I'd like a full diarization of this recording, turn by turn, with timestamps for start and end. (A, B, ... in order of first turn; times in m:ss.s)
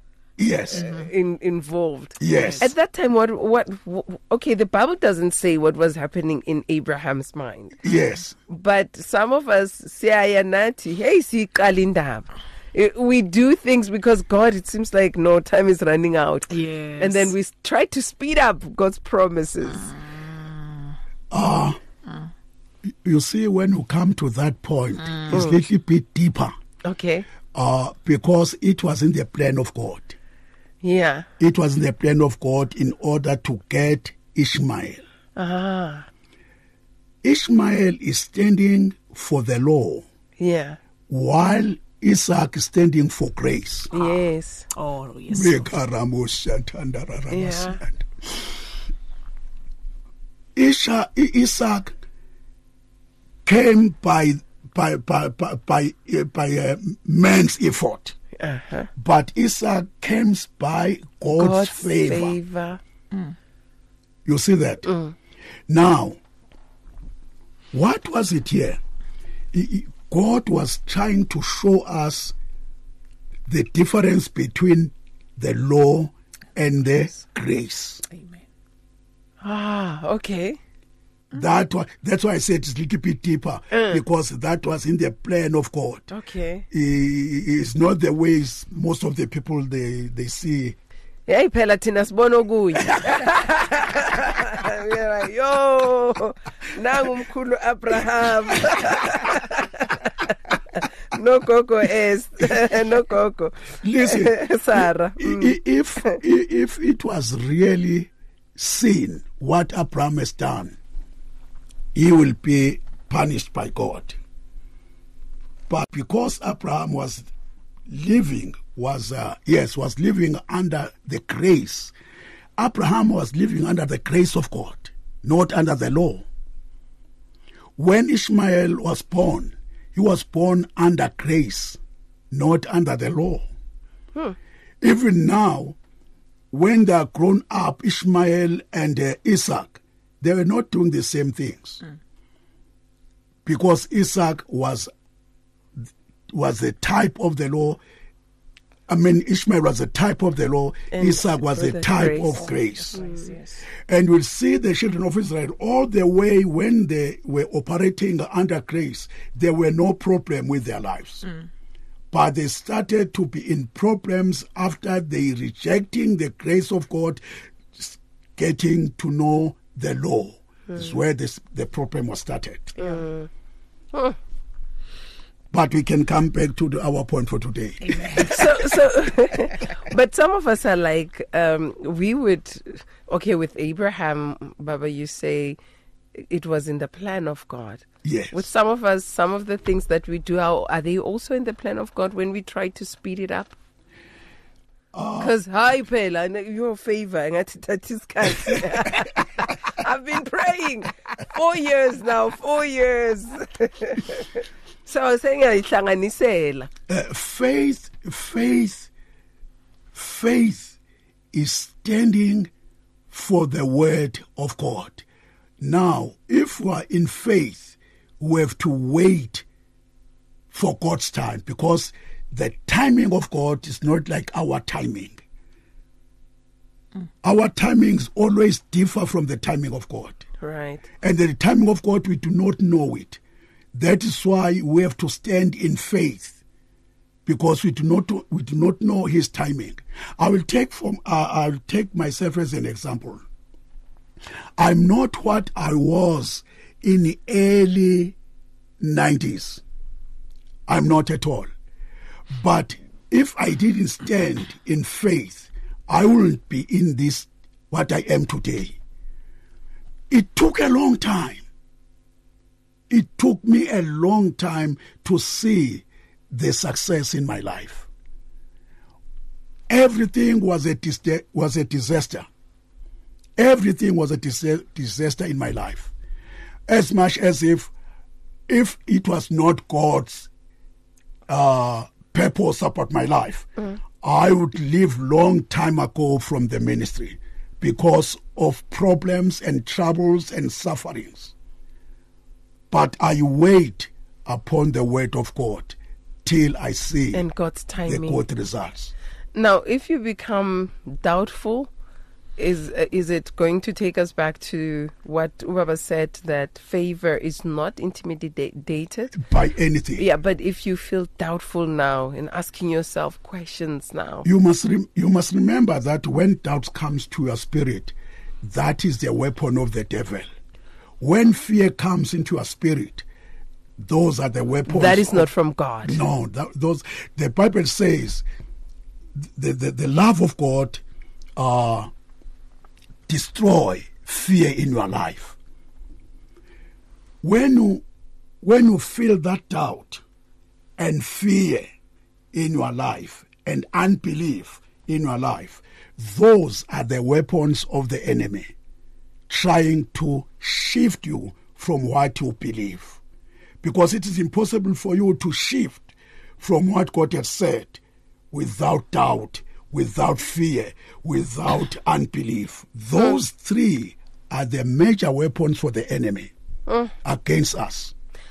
0:00.4-0:00.9 A
0:00.7-0:07.8 B
0:00.8-0:01.1 C
0:02.2-0:02.7 A
0:02.3-0:02.7 C
0:07.8-0:08.4 A
0:08.5-0:19.9 B
0:16.5-0:17.3 C
0:19.8-0:20.8 C
0:21.3-0:21.8 A
0:23.0-0:26.5 A
0:25.0-0:25.3 C
0:25.3-0:25.6 B
0:26.8-0:27.3 B
0:27.5-0:30.2 A
0:30.8-0:31.3 B
0:31.4-0:35.0 A
0:35.4-0:36.1 B
0:37.2-0:40.1 A
0:40.4-0:40.8 B
0:41.1-0:43.9 A
0:43.9-0:44.7 B
0:44.8-0:45.7 C
0:45.3-0:48.6 A
0:47.3-0:47.8 B
0:50.6-0:52.0 A
0:53.4-0:58.2 A
0:58.4-0:58.9 B
0:59.0-1:02.4 A
1:01.3-1:02.8 B
1:04.2-1:04.9 A
1:04.9-1:05.1 B
1:05.7-1:06.2 A
1:07.7-1:08.8 A
1:09.5-1:12.4 A
1:13.5-1:18.0 A
1:18.1-1:18.4 C
1:19.4-1:20.6 B
1:21.3-1:26.1 A
1:23.7-1:24.0 B
1:26.1-1:26.7 B
1:26.7-1:30.8 A
1:31.3-1:45.6 B
1:43.8-1:50.8 A
1:52.0-1:54.2 A
1:55.7-1:57.3 A
1:57.9-2:01.9 A
2:02.6-2:06.3 A
2:07.8-2:11.8 A
2:12.3-2:13.5 A
2:14.8-2:15.8 A
2:16.5-2:21.8 A
2:23.5-2:24.9 A
2:26.3-2:27.8 A
2:28.9-2:33.0 A
2:30.9-2:33.3 B
2:32.2-2:33.7 C
2:33.8-2:41.3 A
2:42.1-2:47.2 A
2:47.7-2:52.8 A
2:52.8-2:53.3 B
2:55.5-2:58.5 A
2:57.8-2:58.5 C
2:58.3-3:05.6 B
3:06.2-3:13.6 B
3:08.0-3:08.5 A
3:14.9-3:15.4 A
3:15.2-3:26.7 B
3:26.9-3:28.9 A
3:29.9-3:30.8 A
3:31.3-3:32.5 A
3:33.1-3:35.0 A
3:35.6-3:39.5 A
3:40.5-3:45.2 A
3:47.2-3:50.3 A
3:50.4-3:50.8 B
3:51.0-3:53.2 A
3:53.7-3:56.4 A
3:57.3-4:03.2 A
4:04.6-4:08.2 A
4:08.8-4:09.6 A
4:10.7-4:11.5 A
4:12.3-4:18.8 A
4:20.1-4:21.4 A
4:22.9-4:27.9 A
4:29.7-4:32.3 A
4:33.4-4:35.9 A
4:36.7-4:37.7 A
4:38.5-4:40.3 A
4:41.3-4:43.5 A
4:44.0-4:51.3 A
4:52.7-4:57.3 A
4:57.1-4:58.2 B
4:57.8-4:58.9 A
4:59.4-5:01.7 B
5:02.4-5:09.1 B
5:09.1-5:10.0 A
5:10.0-5:14.3 B
5:14.2-5:20.3 A
5:21.0-5:23.1 A
5:23.8-5:25.3 A
5:24.7-5:26.0 B
5:25.8-5:28.2 A
5:29.2-5:30.8 A
5:31.4-5:31.9 A
5:33.1-5:35.4 A
5:37.2-5:37.8 A
5:38.4-5:40.0 A
5:40.8-5:41.7 A
5:42.3-5:48.5 A
5:49.3-5:53.0 A
5:53.6-5:57.8 A
5:58.3-6:06.3 A
6:06.7-6:06.9 B
6:07.0-6:07.9 A